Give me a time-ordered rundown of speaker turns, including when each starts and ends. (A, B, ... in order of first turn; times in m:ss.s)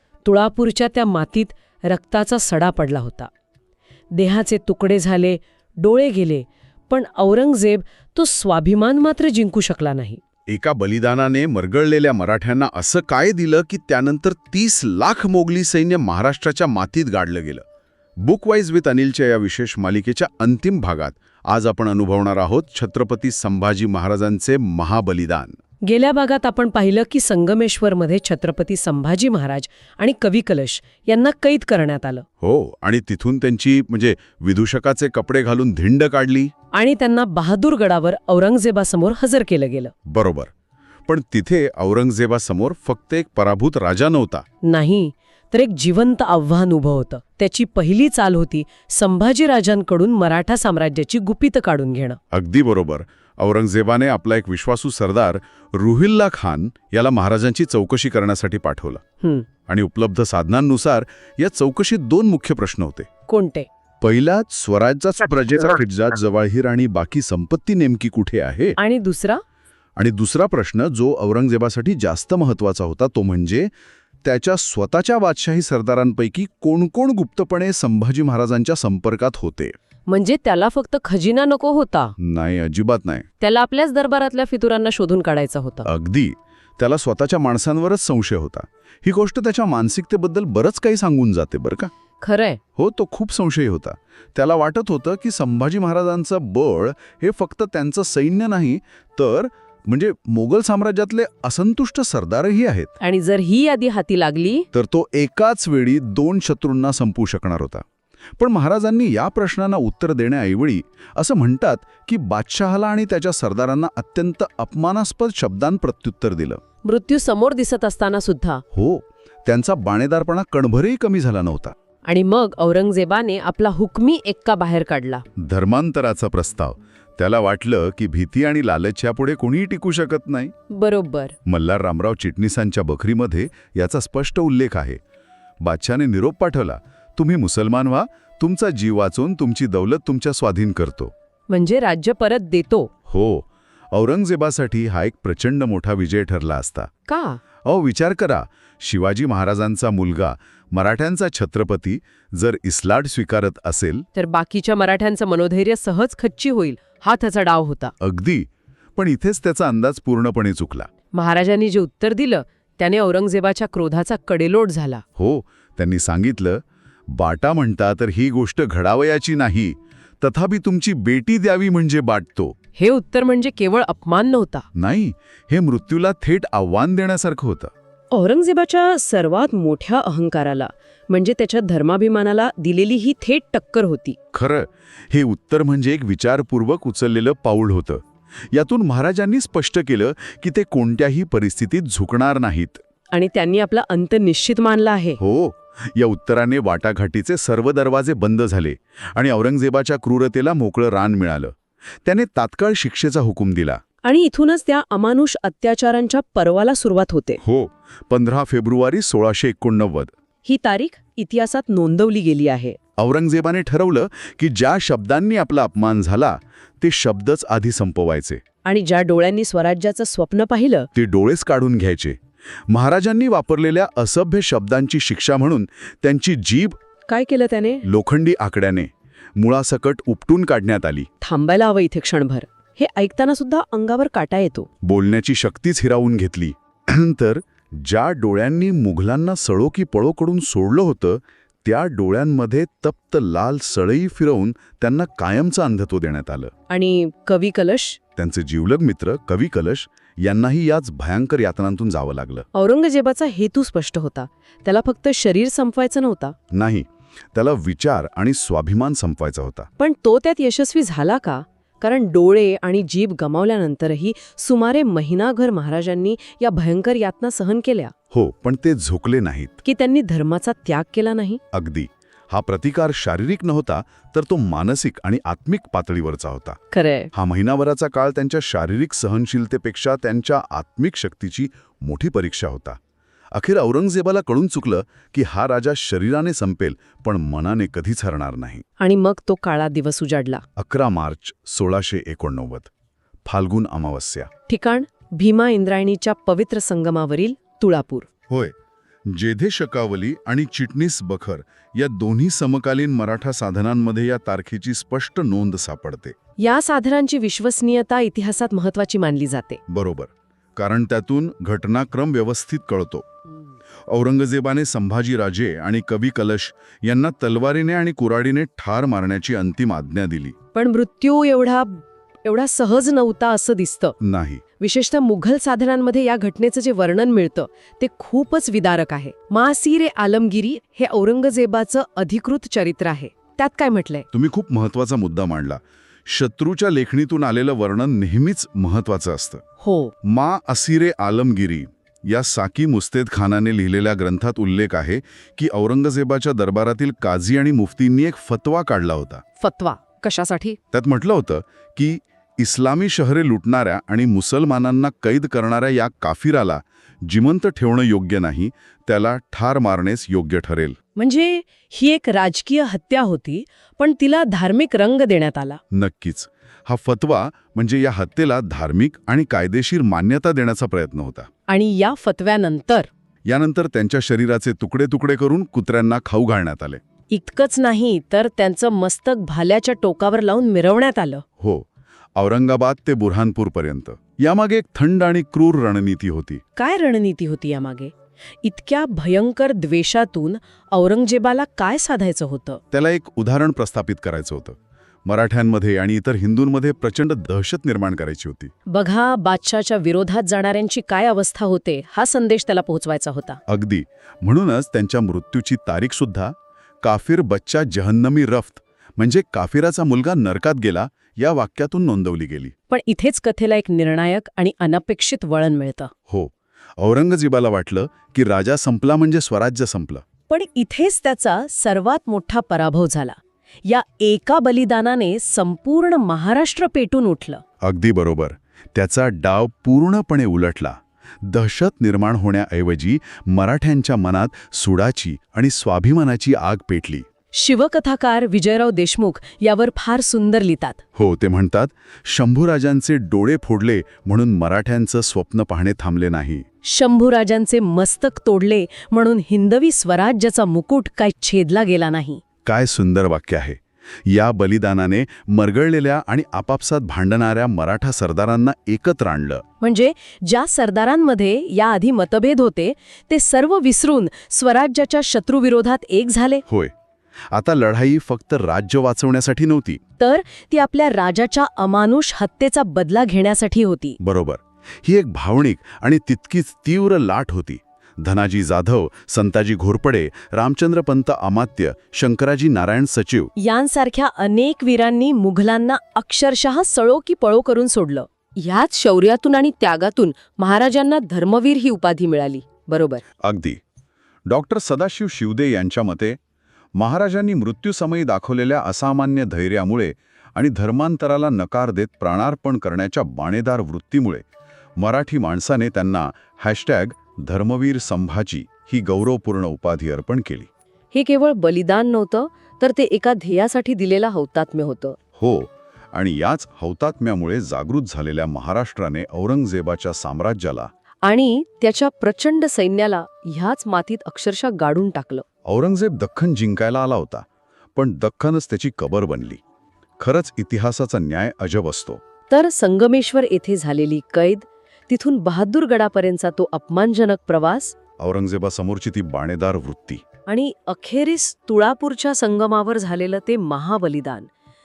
0:00.2-0:03.3 A
0:04.1-0:10.2 A
0:10.5-0:17.6 B
0:18.2-0:25.6 B
0:25.8-0:32.2 A
0:32.4-0:36.5 B
0:36.7-0:39.9 A
0:40.0-0:40.5 B
0:41.1-0:44.4 B
0:44.6-0:52.2 A
0:52.3-0:59.0 B
0:59.2-0:59.5 A
0:59.7-1:03.1 B
1:03.3-1:03.7 A
1:04.0-1:08.8 B
1:08.8-1:09.4 A
1:10.0-1:13.7 B
1:14.2-1:19.8 B
1:20.1-1:22.1 A
1:22.2-1:23.2 B
1:23.4-1:25.9 A
1:25.9-1:31.9 B
1:32.2-1:32.6 A
1:32.8-1:42.9 B
1:43.0-1:44.7 A
1:44.7-1:47.8 B
1:48.4-1:56.6 B
1:56.8-1:58.6 A
1:58.7-2:01.7 B
2:02.1-2:05.2 A
2:05.4-2:10.5 B
2:10.7-2:11.4 A
2:11.5-2:15.0 B
2:15.6-2:21.1 B
2:21.5-2:22.9 A
2:23.1-2:26.9 B
2:27.1-2:27.4 A
2:27.6-2:34.1 B
2:34.2-2:37.9 A
2:38.0-2:40.9 B
2:41.1-2:45.0 A
2:45.2-2:52.6 B
2:52.8-2:54.7 A
2:54.8-2:57.7 B
2:58.1-3:04.2 A
3:04.3-3:12.8 B
3:13.1-3:15.2 A
3:15.2-3:23.8 B
3:24.0-3:27.4 A
3:27.4-3:30.1 B
3:30.4-3:32.8 A
3:33.0-3:38.4 B
3:38.6-3:40.9 A
3:40.9-3:42.2 B
3:42.7-3:46.8 B
3:47.1-3:47.8 A
3:47.8-3:51.1 B
3:51.2-3:54.7 A
3:54.8-4:06.5 B
4:06.7-4:08.0 A
4:08.2-4:12.4 B
4:12.5-4:16.4 A
4:16.5-4:19.7 B
4:19.8-4:27.9 A
4:28.1-4:29.6 B
4:29.6-4:31.4 A
4:31.5-4:36.6 B
4:36.7-4:37.1 A
4:37.1-4:42.8 B
4:43.3-4:48.6 B
4:48.8-4:50.4 A
4:50.6-4:52.7 B
4:53.2-4:54.3 B
4:54.5-4:58.1 A
4:59.1-5:06.1 B
5:06.4-5:09.6 A
5:09.7-5:13.1 B
5:13.9-5:20.4 B
5:20.5-5:24.0 A
5:24.0-5:24.4 B
5:24.6-5:34.1 A
5:34.1-5:39.4 B
5:39.6-5:39.9 A
5:40.0-5:49.2 B
5:49.4-5:50.6 A
5:50.7-6:00.8 B
6:00.9-6:05.6 A
6:05.7-6:11.3 B
6:11.5-6:12.9 A
6:13.3-6:16.8 B
6:17.1-6:21.2 A
6:21.4-6:26.4 B
6:26.6-6:32.6 A
6:32.7-6:38.5 B
6:38.7-6:43.4 A
6:43.5-6:52.5 B
6:52.7-6:55.9 A
6:56.1-7:00.0 B
7:00.3-7:07.4 A
7:07.6-7:17.0 B
7:17.4-7:20.8 A
7:21.0-7:26.4 B
7:26.6-7:32.2 A
7:32.5-7:39.4 B
7:39.6-7:46.4 A
7:46.5-7:46.7 B
7:47.3-7:49.8 B
7:50.0-7:54.0 A
7:54.0-8:03.3 B
8:03.4-8:13.0 A
8:13.2-8:13.6 B
8:14.3-8:16.2 B
8:16.8-8:24.2 B
8:24.8-8:30.5 B
8:30.9-8:35.0 A
8:35.2-8:40.7 B
8:41.0-8:45.2 A
8:45.5-8:49.4 B
8:50.0-8:52.0 B
8:52.3-8:57.8 A
8:58.0-9:00.0 B
9:00.3-9:04.3 A